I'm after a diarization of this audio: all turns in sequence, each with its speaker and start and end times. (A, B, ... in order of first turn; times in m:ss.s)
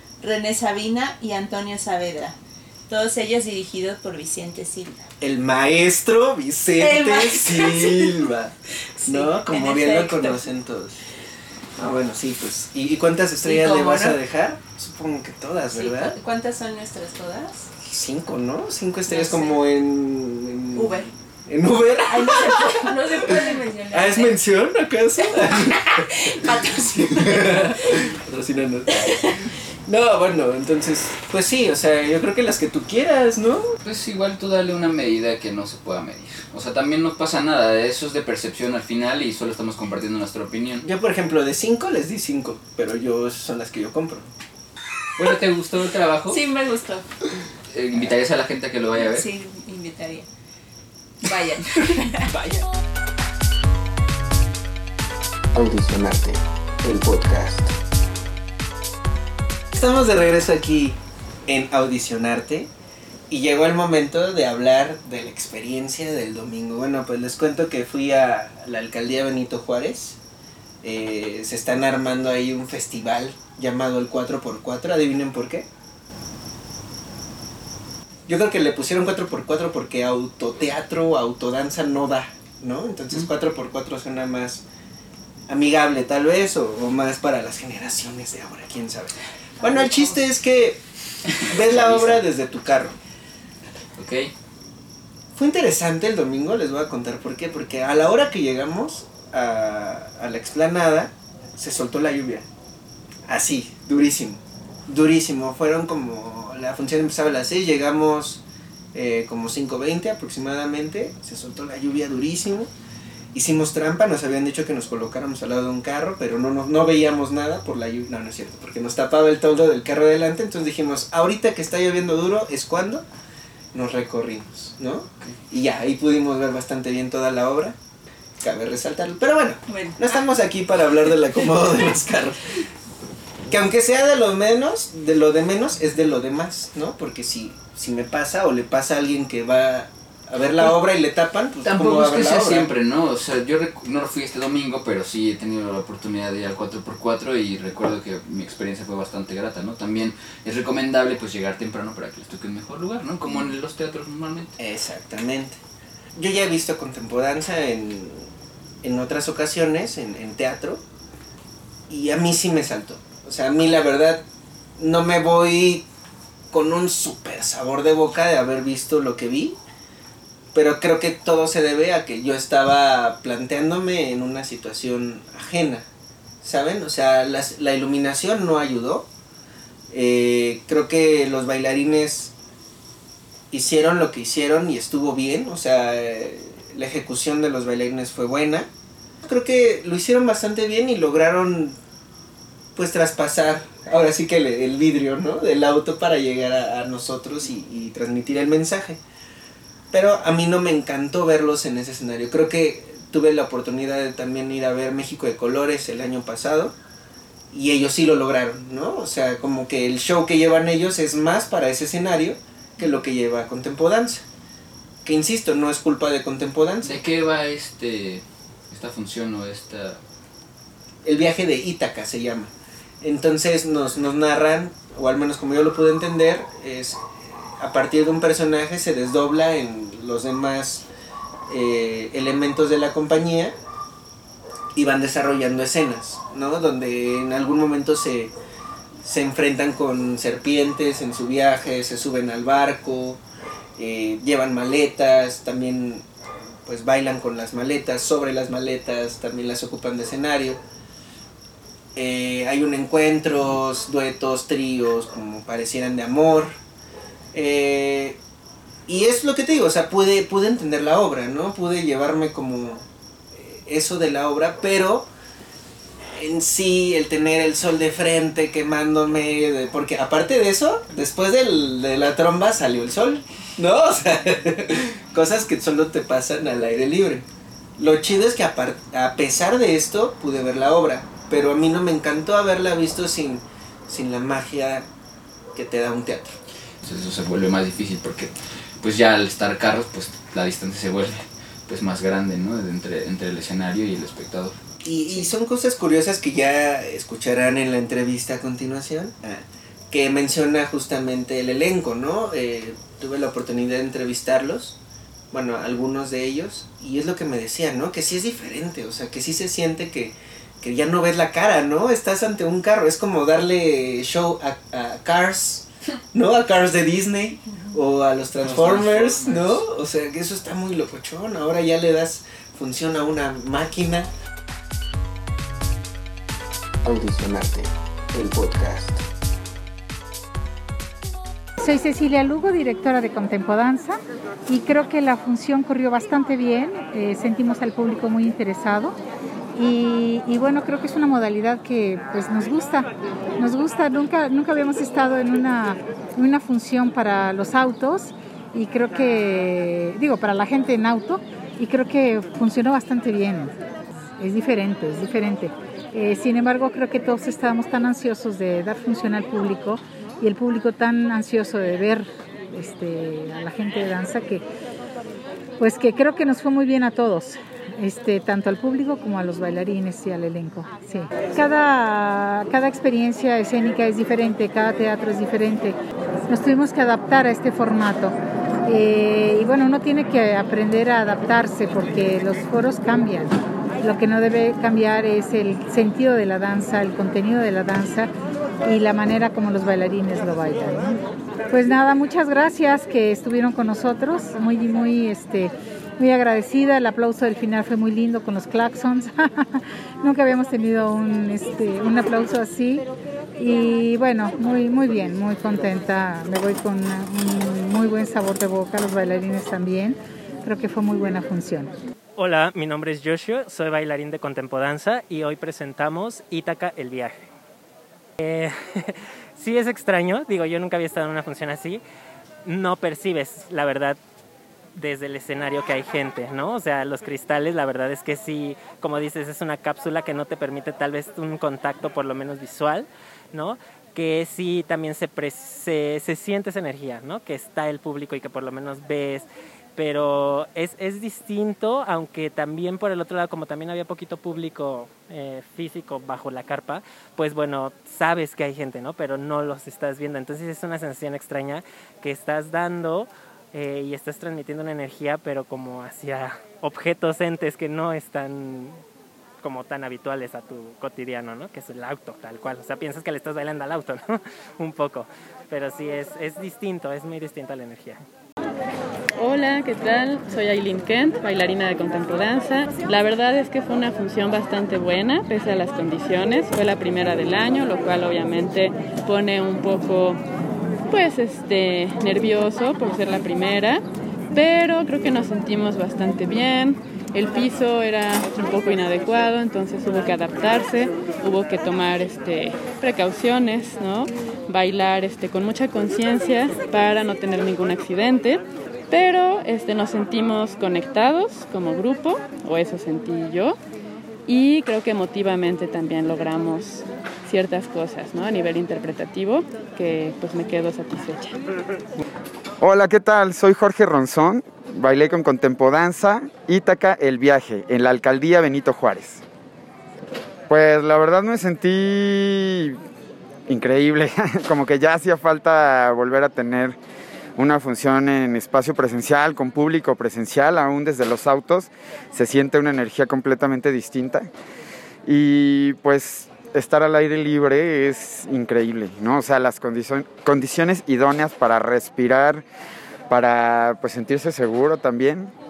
0:00.2-0:02.4 A
0:02.9-0:05.0 A
0:05.2-0:08.5 B
0:06.8-0:08.2 A
0:09.0-0:10.4 A
0:09.0-0:11.0 B
0:11.8-0:16.2 B
0:13.4-0:14.2 A
0:15.7-0:17.7 A
0:17.8-0:26.0 B
0:19.1-0:19.6 A
0:20.7-0:21.1 A
0:22.0-0:24.4 A
0:25.5-0:27.7 A
0:27.0-0:33.6 B
0:33.8-0:40.8 C
0:40.8-0:44.3 B
0:45.2-0:46.4 C
0:46.3-0:47.0 A
0:47.7-0:49.2 C
0:49.0-0:50.3 A
0:51.2-0:52.3 A
0:52.3-0:52.6 C
0:55.5-0:57.7 D
0:59.7-1:02.7 B
1:03.3-1:10.2 B
1:10.8-1:15.7 B
1:18.3-1:24.6 B
1:25.5-1:30.8 B
1:29.6-1:30.2 A
1:31.4-1:33.0 B
1:31.5-1:32.2 C
1:34.0-1:34.3 C
1:35.4-1:42.5 B
1:43.3-1:48.4 B
1:48.9-1:52.7 B
1:53.3-2:03.0 B
2:03.7-2:07.8 B
2:08.4-2:12.6 B
2:09.7-2:10.2 A
2:13.5-2:22.7 B
2:21.6-2:34.5 C
2:34.6-2:35.6 B
2:36.1-2:38.3 B
2:38.8-2:40.8 B
2:41.9-2:44.2 B
2:44.8-2:45.9 B
2:46.5-2:49.6 B
2:50.5-2:55.8 B
2:56.4-2:59.1 B
2:59.9-3:02.3 B
3:03.5-3:08.7 B
3:09.2-3:11.8 B
3:12.7-3:19.0 B
3:19.9-3:26.7 B
3:27.5-3:34.2 B
3:35.0-3:37.0 B
3:36.8-3:40.0 C
3:41.0-3:42.5 B
3:43.0-3:50.8 B
3:51.5-3:53.5 B
3:54.7-3:58.3 B
3:59.0-4:03.2 B
4:03.8-4:06.0 B
4:06.6-4:10.6 B
4:11.9-4:16.6 B
4:17.3-4:18.2 B
4:18.9-4:22.8 B
4:23.3-4:25.1 B
4:26.2-4:37.2 B
4:37.8-4:44.9 B
4:45.5-4:46.4 B
4:46.8-4:54.5 C
4:54.8-5:04.8 B
5:05.3-5:24.1 B
5:18.4-5:19.6 C
5:26.8-5:29.0 D
5:31.6-5:38.9 E
5:39.5-5:53.5 E
5:54.2-6:04.4 E
6:05.6-6:15.8 E
6:16.3-6:18.1 E
6:18.6-6:28.1 E
6:28.6-6:31.0 E
6:31.5-6:42.8 E
6:43.4-6:51.7 E
6:52.2-6:57.3 F
6:58.2-7:01.8 F
7:02.4-7:04.0 F
7:04.8-7:19.2 F
7:19.8-7:38.8 F
7:39.4-7:48.0 F
7:49.2-8:00.2 G
8:00.9-8:23.6 G
8:24.2-8:31.4 G
8:32.6-8:39.2 H
8:40.5-8:42.8 H
8:43.5-8:46.8 H
8:47.4-8:54.3 H
8:55.0-9:02.4 H
9:03.1-9:05.3 H